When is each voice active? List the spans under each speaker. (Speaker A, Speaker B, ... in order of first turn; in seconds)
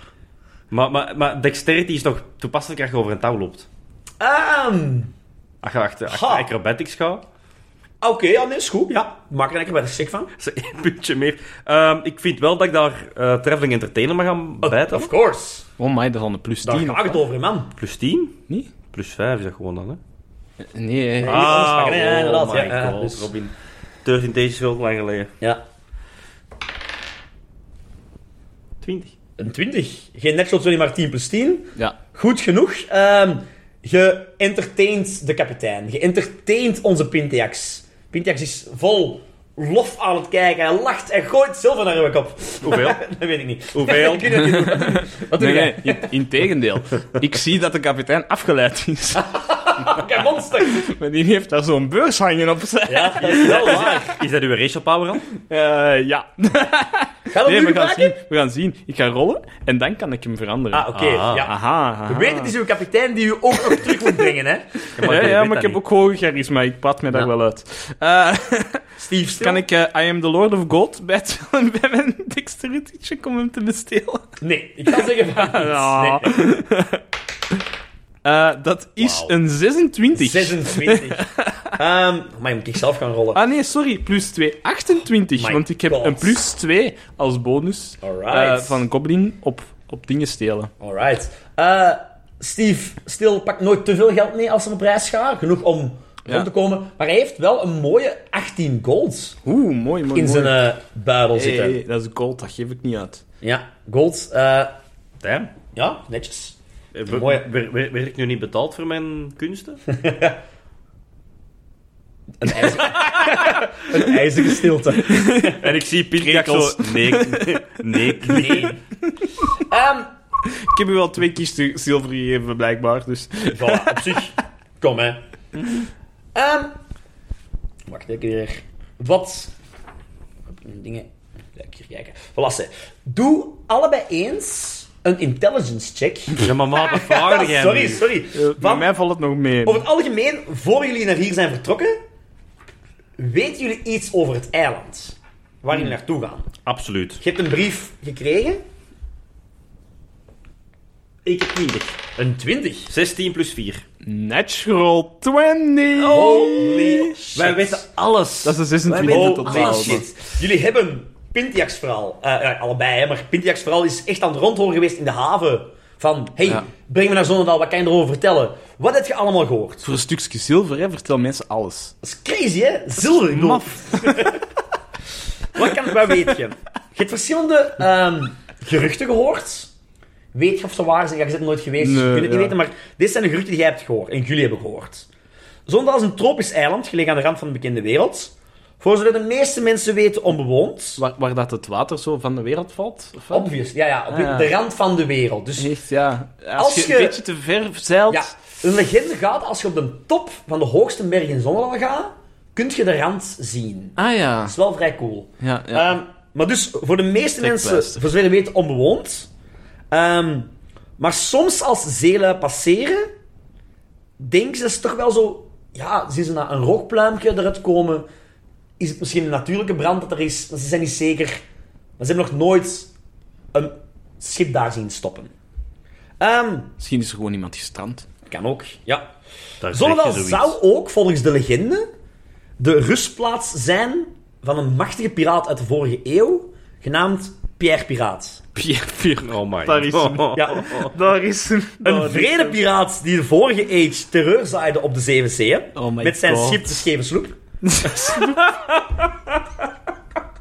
Speaker A: 0.7-3.7, 5.6-7.2, 10.4-15.1, 17.8-18.4, 18.9-20.0, 21.2-23.5, 24.0-25.3, 28.8-29.1, 42.6-43.0, 43.7-44.4, 53.2-55.2, 60.9-61.5, 65.0-65.8, 79.0-79.3, 105.2-105.5, 106.9-109.8, 115.5-118.7, 136.4-138.1, 146.7-147.2, 151.2-152.0, 152.9-153.8, 156.0-160.0, 229.6-230.6, 239.2-240.9
Speaker B: 4.2-5.1, 6.1-6.5, 8.0-10.3, 14.6-15.7, 16.6-17.7, 21.2-23.3, 29.4-46.1, 49.2-50.8, 52.9-54.1, 57.3-58.1, 60.7-64.7, 69.0-69.6, 74.4-76.6, 80.1-81.2, 81.8-83.4, 85.3-86.4, 88.0-88.8, 90.8-99.4, 100.1-101.8, 103.4-104.7, 105.7-106.5, 107.1-107.4, 109.9-110.4, 112.4-115.6, 118.2-118.8, 119.6-120.1, 123.5-125.2, 126.3-126.8, 127.9-129.5, 130.5-138.9, 139.6-142.0, 143.2-146.5, 147.2-148.6, 152.2-152.9, 156.0-157.8, 158.9-169.8, 172.0-174.4, 175.5-179.7, 180.3-185.1, 185.7-191.0, 193.3-195.7, 196.6-197.2, 198.1-209.3, 209.9-213.1, 214.2-218.1, 218.8-221.4, 222.0-222.9, 223.5-225.3, 226.2-226.7, 228.3-229.1, 229.7-231.9, 232.6-238.4, 240.3-240.7, 241.8-247.4
Speaker C: 15.8-17.2, 20.6-21.6, 44.4-49.3, 50.6-53.9, 55.5-62.5, 63.7-64.1, 65.0-68.8, 69.4-74.2, 74.9-77.0, 78.2-81.7, 83.3-90.7, 99.4-100.6, 101.3-103.2, 115.1-115.5, 116.2-117.2, 120.5-124.1, 138.3-139.8, 154.0-157.2, 158.4-160.0, 169.8-171.9, 173.0-174.3, 181.8-182.6, 191.0-193.5, 194.1-194.5, 195.6-198.3, 204.0-204.5, 205.4-205.9, 207.4-208.0, 226.8-228.1, 238.5-242.6, 245.8-246.8, 247.6-248.8